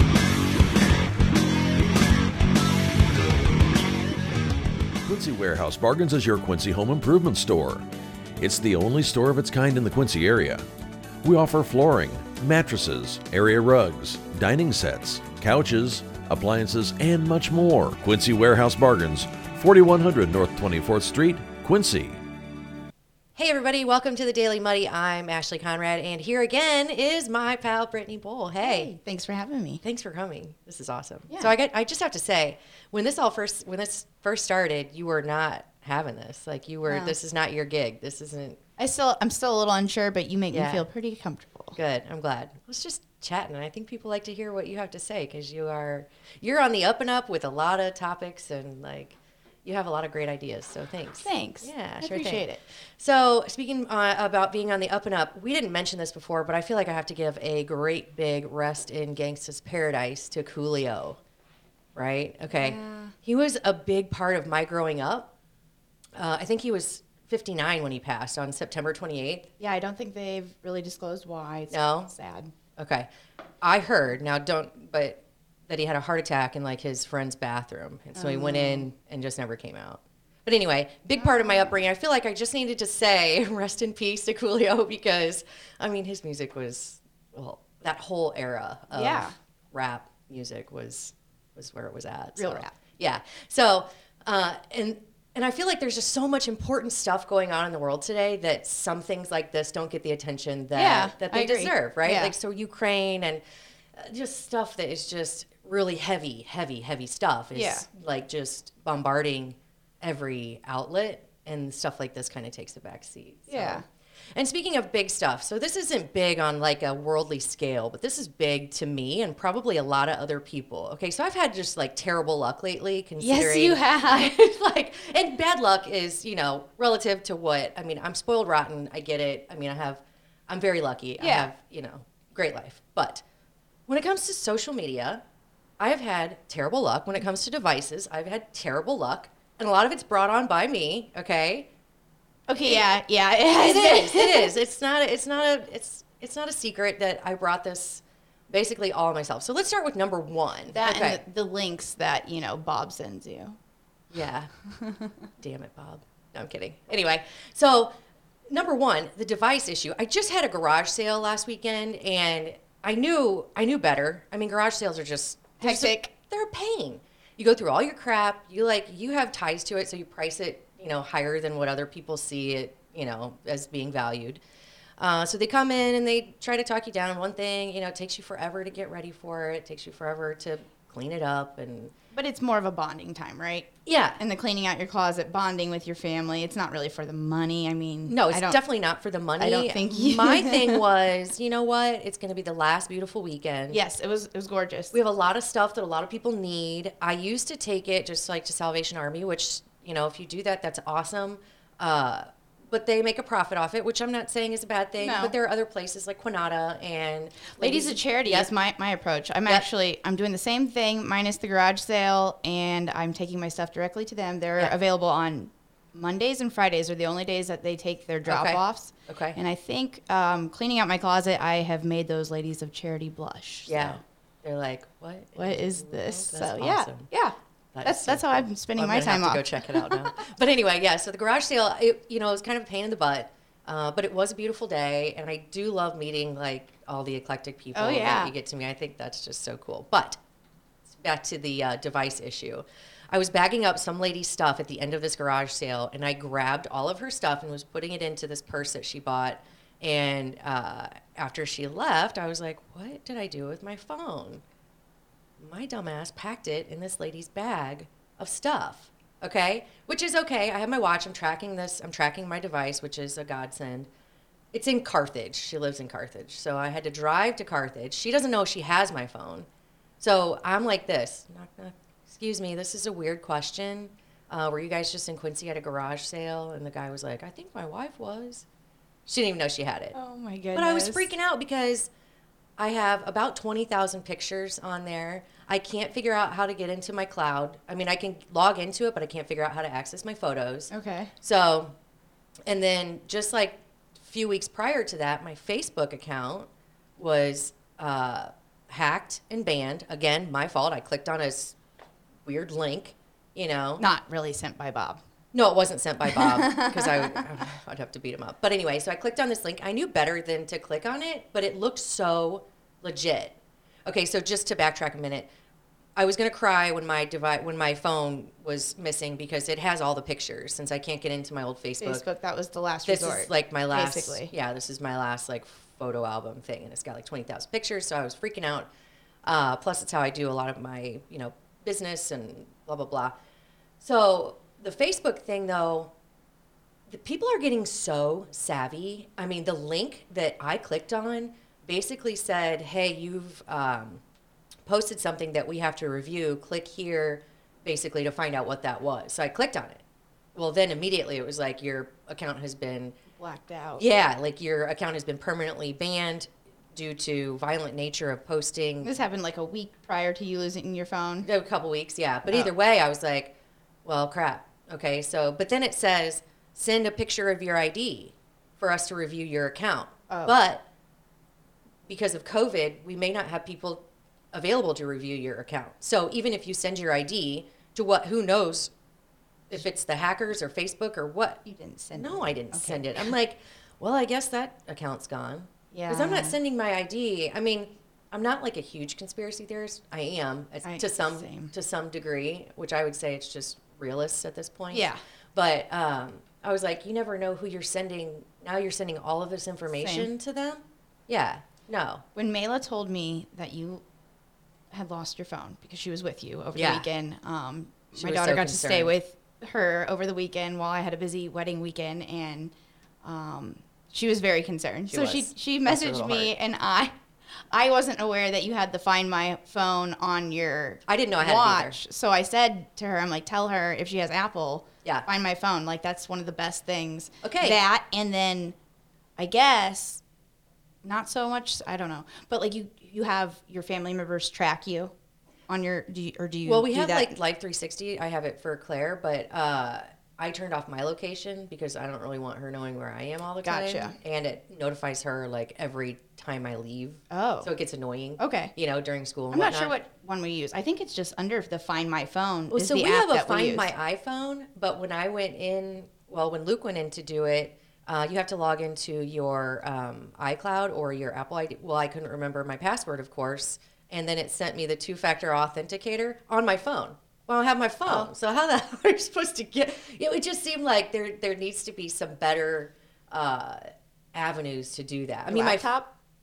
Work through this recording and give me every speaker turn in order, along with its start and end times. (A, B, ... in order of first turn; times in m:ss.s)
0:05.0-0:07.8 A
0:08.4-0:10.6 A
0:11.2-0:22.2 A
0:23.4-0:28.9 B
0:28.6-0:29.8 C
0:29.8-0:38.6 B
0:36.9-0:37.2 C
0:38.8-0:41.8 C
0:40.5-0:40.9 B
0:41.8-0:52.5 B
0:51.2-0:52.6 C
0:53.0-1:01.2 B
1:02.0-1:05.3 B
1:02.5-1:03.1 C
1:06.2-1:09.5 B
1:09.6-1:12.5 C
1:11.7-1:12.1 B
1:12.8-1:13.1 B
1:13.6-1:43.4 B
1:18.2-1:18.9 C
1:21.2-1:21.7 C
1:28.9-1:29.3 C
1:32.4-1:32.7 C
1:40.7-1:42.3 C
1:43.9-2:13.2 B
1:47.5-1:47.9 C
1:53.5-1:53.8 C
2:03.2-2:04.3 C
2:11.2-2:11.5 C
2:13.9-2:15.2 B
2:15.8-2:21.7 B
2:22.5-2:24.6 C
2:23.5-2:31.2 B
2:30.7-2:33.6 C
2:34.1-2:34.5 B
2:34.7-2:35.1 C
2:35.4-2:37.9 B
2:38.5-2:54.4 B
2:45.6-2:46.1 C
2:55.0-3:01.9 B
3:02.1-3:08.6 C
3:03.9-3:04.2 B
3:08.1-3:13.8 B
3:09.4-3:10.8 C
3:13.7-3:15.0 C
3:14.9-3:28.5 B
3:25.0-3:25.4 C
3:27.6-3:44.0 C
3:38.3-3:39.4 B
3:43.7-3:47.1 B
3:45.4-3:50.2 C
3:47.7-4:00.2 B
3:57.8-3:58.3 C
4:00.9-4:14.4 B
4:15.4-4:23.9 B
4:24.5-4:29.5 B
4:30.0-4:38.5 B
4:39.1-4:40.0 B
4:39.9-4:41.1 C
4:40.5-4:41.9 B
4:42.6-4:51.7 B
4:50.7-4:51.1 C
4:52.5-5:01.6 B
5:02.2-5:03.8 B
5:03.8-5:05.0 C
5:05.3-5:15.3 B
5:06.0-5:07.2 C
5:16.0-5:22.0 B
5:21.8-5:24.3 C
5:22.9-5:28.7 B
5:29.2-5:33.2 B
5:33.8-5:35.9 B
5:36.9-5:44.0 B
5:44.7-5:49.8 B
5:50.4-5:53.0 B
5:53.2-5:53.8 C
5:53.8-5:58.9 B
5:58.8-6:01.3 C
6:01.2-6:10.6 B
6:02.3-6:02.5 C
6:10.1-6:10.4 C
6:11.9-6:18.7 B
6:19.5-6:21.4 B
6:21.4-6:23.1 C
6:22.0-6:42.0 B
6:25.7-6:26.4 C
6:30.6-6:31.5 C
6:34.7-6:35.0 C
6:39.8-6:40.1 C
6:42.2-6:43.8 C
6:44.7-6:56.9 C
6:46.6-6:46.9 B
6:47.9-6:48.9 B
6:54.9-6:56.3 B
6:57.5-7:08.6 C
7:00.9-7:01.8 B
7:07.2-7:07.6 B
7:09.2-7:10.0 C
7:10.8-7:14.9 C
7:15.5-7:17.2 C
7:16.5-7:29.7 B
7:23.4-7:24.0 C
7:27.1-7:27.5 C
7:28.2-7:28.5 C
7:29.3-7:33.7 C
7:32.5-7:55.7 B
7:47.8-7:48.1 C
7:55.3-7:55.9 C